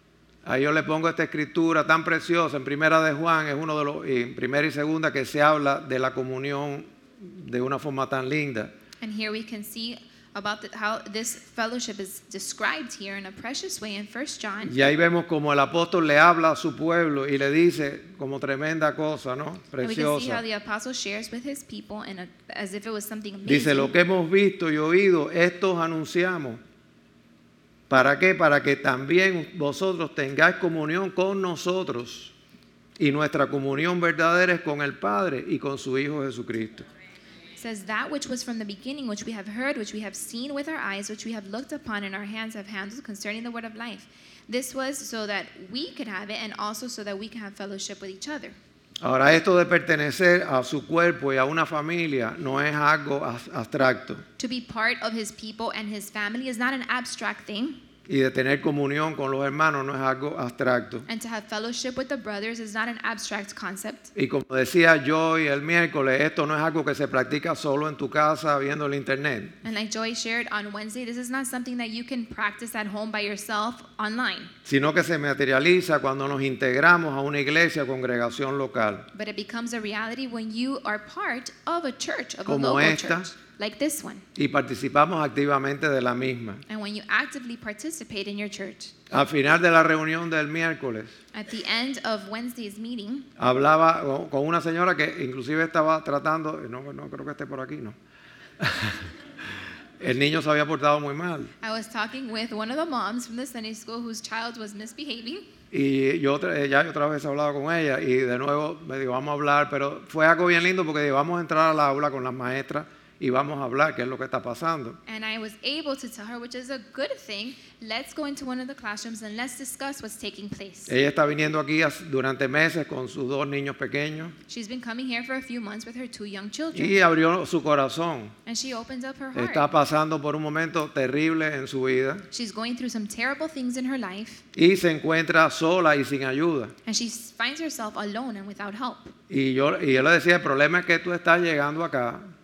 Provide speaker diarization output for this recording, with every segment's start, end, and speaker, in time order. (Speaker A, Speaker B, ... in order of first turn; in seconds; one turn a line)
Speaker A: 0.4-8.7
Speaker B: 9.0-14.7
Speaker A: 14.6-20.4
Speaker B: 19.8-23.9
Speaker A: 23.4-26.6
Speaker A: 27.9-32.3
Speaker A: 33.0-36.9
Speaker B: 37.6-48.5
Speaker A: 49.0-54.2
Speaker B: 54.4-57.8
Speaker A: 58.1-61.0
Speaker B: 61.1-64.1
Speaker A: 64.1-69.5
Speaker B: 69.6-74.5
Speaker A: 74.6-79.1
Speaker B: 79.1-84.2
Speaker A: 82.5-83.3
Speaker A: 84.4-86.6
Speaker B: 86.7-88.9
Speaker A: 89.1-91.1
Speaker B: 91.3-93.3
Speaker A: 93.4-98.0
Speaker A: 98.6-99.1
Speaker A: 100.0-101.5
Speaker B: 101.6-105.5
Speaker A: 105.7-115.0
Speaker B: 115.1-120.9
Speaker A: 120.9-124.4
Speaker B: 124.5-127.0
Speaker A: 126.7-128.4
Speaker B: 128.4-129.7
Speaker A: 129.3-132.2
Speaker B: 132.3-134.4
Speaker A: 134.6-136.7
Speaker B: 136.9-139.1
Speaker A: 139.3-142.3